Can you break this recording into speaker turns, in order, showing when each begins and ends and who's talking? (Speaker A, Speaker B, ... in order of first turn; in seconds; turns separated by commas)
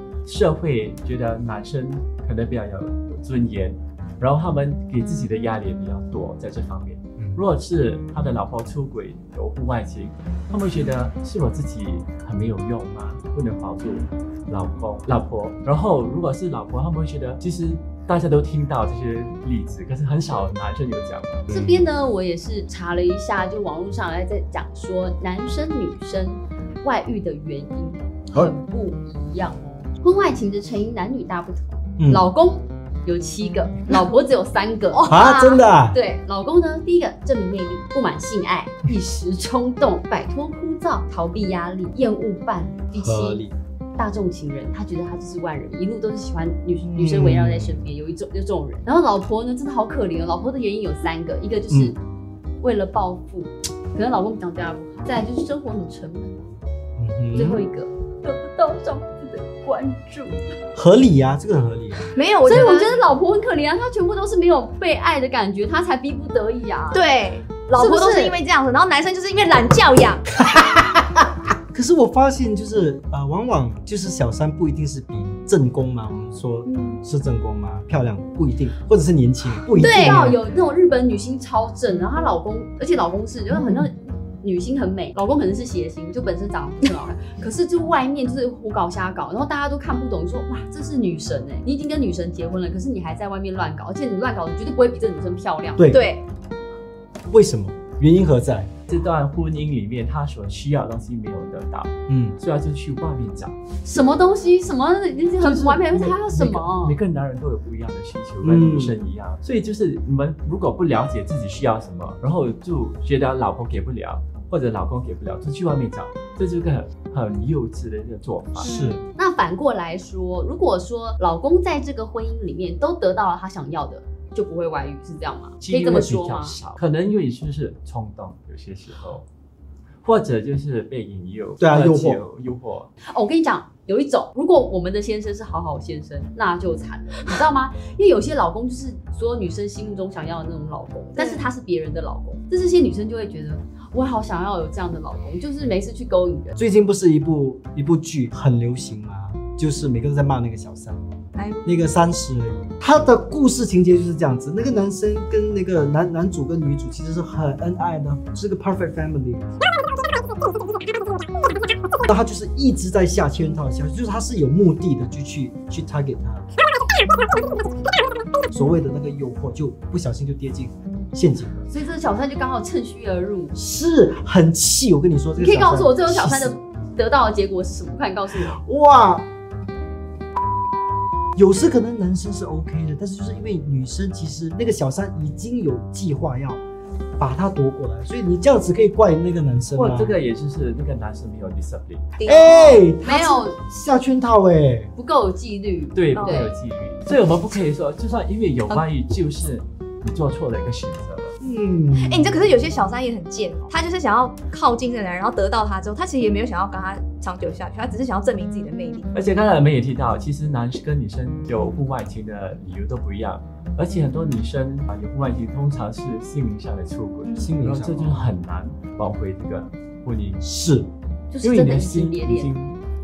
Speaker A: 0.2-21.5, Speaker B: 7.2-7.4, Speaker B: 21.5-21.8, Speaker C: 21.5-35.1, Speaker B: 32.0-32.2, Speaker D: 34.9-35.6, Speaker B: 35.0-36.0, Speaker C: 35.9-43.4, Speaker B: 42.9-43.5, Speaker C: 44.0-52.0, Speaker B: 46.8-47.9, Speaker C: 52.6-56.4, Speaker B: 57.0-57.6, Speaker C: 57.3-60.4, Speaker B: 60.7-62.1, Speaker D: 62.1-63.0, Speaker C: 62.4-67.1, Speaker D: 66.9-70.3, Speaker C: 67.7-68.3, Speaker B: 70.5-71.2, Speaker B: 71.7-80.4, Speaker D: 76.7-77.0, Speaker C: 79.8-95.9, Speaker D: 79.8-80.3, Speaker B: 95.8-96.0, Speaker D: 95.9-96.2, Speaker B: 97.3-98.7, Speaker A: 98.9-103.6, Speaker B: 102.1-102.4, Speaker C: 103.8-107.0, Speaker A: 105.4-118.7, Speaker B: 108.4-109.0, Speaker B: 118.6-119.0, Speaker D: 118.6-119.0, Speaker C: 119.1-126.6, Speaker A: 125.6-129.2, Speaker A: 130.0-132.9, Speaker B: 131.6-132.2, Speaker C: 133.0-146.6, Speaker D: 141.2-141.5, Speaker B: 146.6-151.0, Speaker D: 151.3-151.8, Speaker B: 151.6-159.6, Speaker B: 162.1-166.4, Speaker B: 168.5-171.7, Speaker C: 171.7-173.5, Speaker B: 173.5-176.6, Speaker C: 175.4-178.6, Speaker B: 178.4-179.2, Speaker B: 181.3-186.6, Speaker B: 187.2-190.2, Speaker A: 189.7-192.1, Speaker D: 192.2-193.4, Speaker B: 192.2-194.9, Speaker C: 193.0-193.6, Speaker C: 194.9-196.5, Speaker A: 195.9-201.3, Speaker D: 196.2-196.4, Speaker B: 201.4-202.4, Speaker D: 202.0-209.1, Speaker A: 209.1-220.4, Speaker D: 217.2-217.5, Speaker B: 217.4-218.3, Speaker B: 220.4-220.9, Speaker C: 221.3-222.6, Speaker A: 221.4-222.8